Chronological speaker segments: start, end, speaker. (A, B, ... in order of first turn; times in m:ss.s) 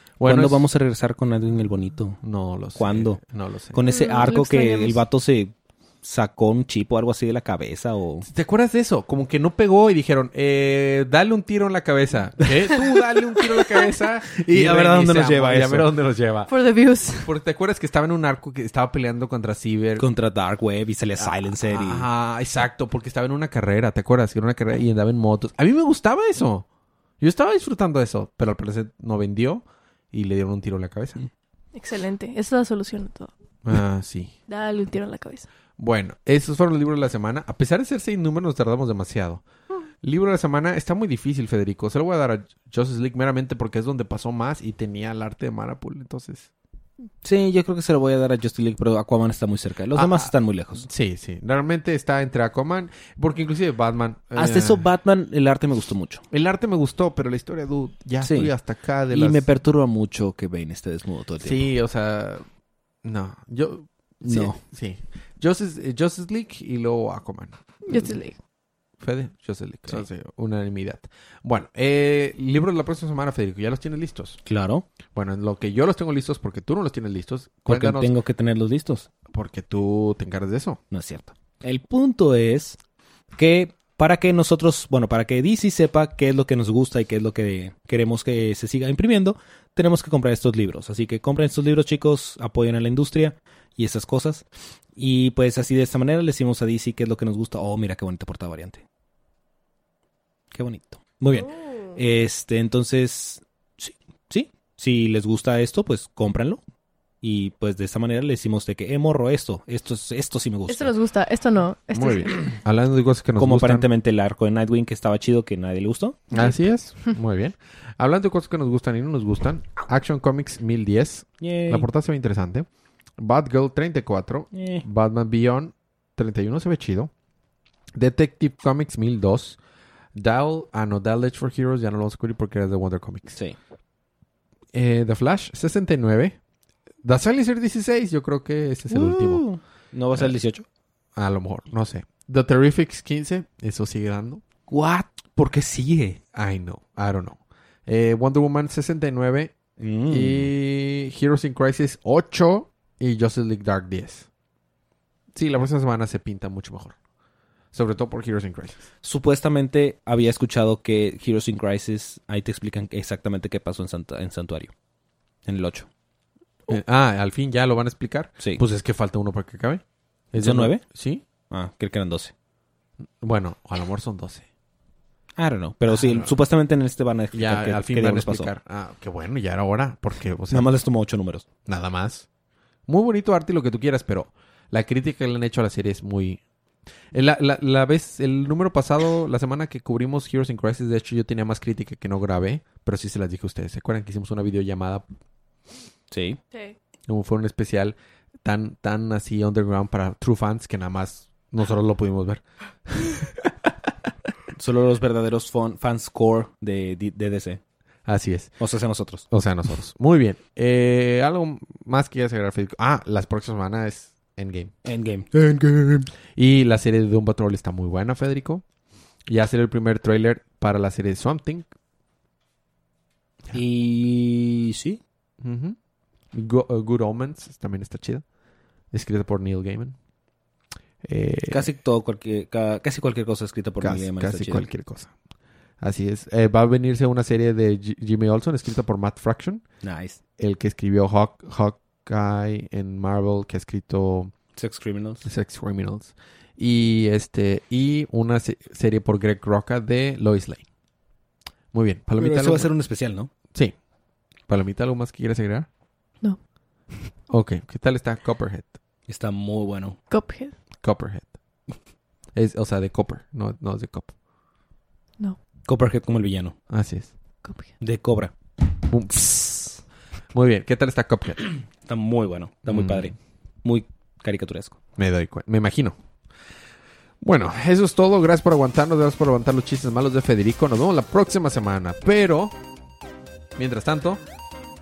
0:00.2-0:00.6 A
0:00.2-0:02.2 B
0:02.2-0:03.8 A
0:02.8-0:03.2 B
0:03.7-0:08.3 B
0:03.8-0:05.0 C
0:08.2-0:16.5 A
0:14.4-0:15.9 B
0:16.5-0:17.3 C
0:17.2-0:20.0 A
0:20.0-0:22.1 B
0:21.2-0:26.6 A
0:27.2-0:31.2 A
0:31.7-0:33.3 C
0:33.6-0:34.3 A
0:34.5-0:35.5 C
0:35.8-0:39.4 A
0:40.0-0:46.5 A
0:47.2-0:50.9 B
0:49.9-0:54.8 A
0:54.3-0:56.2 B
0:56.3-0:59.5 A
0:58.2-0:58.5 B
0:59.1-1:01.7 B
1:01.4-1:02.4 A
1:03.0-1:08.2 A
1:04.2-1:04.6 B
1:07.9-1:08.4 C
1:09.0-1:14.4 A
1:14.4-1:14.8 B
1:15.1-1:18.1 A
1:17.6-1:19.1 B
1:19.3-1:20.8 A
1:20.9-1:22.8 B
1:23.3-1:34.4 B
1:35.0-1:38.8 B
1:40.5-1:46.6 B
1:41.3-1:42.0 C
1:47.2-1:50.9 B
1:50.7-1:52.4 C
1:51.9-1:53.8 A
1:53.4-1:56.3 B
1:56.3-2:02.6 A
2:01.4-2:01.9 B
2:03.2-2:07.1 A
2:04.5-2:04.8 B
2:08.0-2:09.6 A
2:10.2-2:13.4 A
2:13.3-2:13.6 B
2:14.7-2:16.4 A
2:17.0-2:19.4 A
2:18.9-2:20.6 B
2:21.2-2:24.4 A
2:24.7-2:26.2 B
2:26.3-2:29.5 A
2:29.8-2:30.5 B
2:30.1-2:34.3 A
2:35.3-2:36.9 A
2:37.7-2:38.8 A
2:39.0-2:44.7 B
2:45.4-2:45.9 B
2:46.7-2:51.2 A
2:50.4-2:50.8 B
2:51.4-2:52.3 B
2:53.2-2:54.4 A
2:55.4-2:58.5 B
2:55.9-2:56.3 A
2:57.3-3:00.7 A
3:00.5-3:01.4 B
3:01.6-3:02.3 A
3:02.9-3:06.4 A
3:07.1-3:15.0 A
3:16.1-3:16.4 B
3:17.1-3:23.5 A
3:24.6-3:27.6 B
3:28.0-3:28.5 A
3:28.6-3:29.2 B
3:29.3-3:34.7 A
3:34.8-3:36.1 B
3:36.4-3:38.6 A
3:39.3-3:41.7 A
3:43.5-3:45.0 B
3:45.4-3:45.8 A
3:46.3-3:48.2 A
3:48.9-3:50.0 A
3:51.0-3:51.7 A
3:51.5-3:54.7 B
3:53.8-3:55.1 A
3:55.8-3:59.6 A
3:59.8-4:00.2 B
4:00.4-4:04.3 A
4:04.6-4:05.2 B
4:05.2-4:10.6 A
4:11.7-4:12.7 A
4:12.2-4:13.3 B
4:14.5-4:15.7 A
4:17.3-4:18.7 A
4:19.1-4:20.0 B
4:20.1-4:20.5 C
4:20.8-4:21.3 A
4:22.3-4:24.1 A
4:25.6-4:26.6 B
4:26.7-4:27.1 A
4:27.4-4:27.7 C
4:27.8-4:28.3 B
4:28.9-4:29.8 A
4:30.3-4:31.4 A
4:31.8-4:34.8 B
4:32.6-4:33.1 A
4:35.0-4:36.0 A
4:37.2-4:42.5 A
4:43.6-4:44.2 A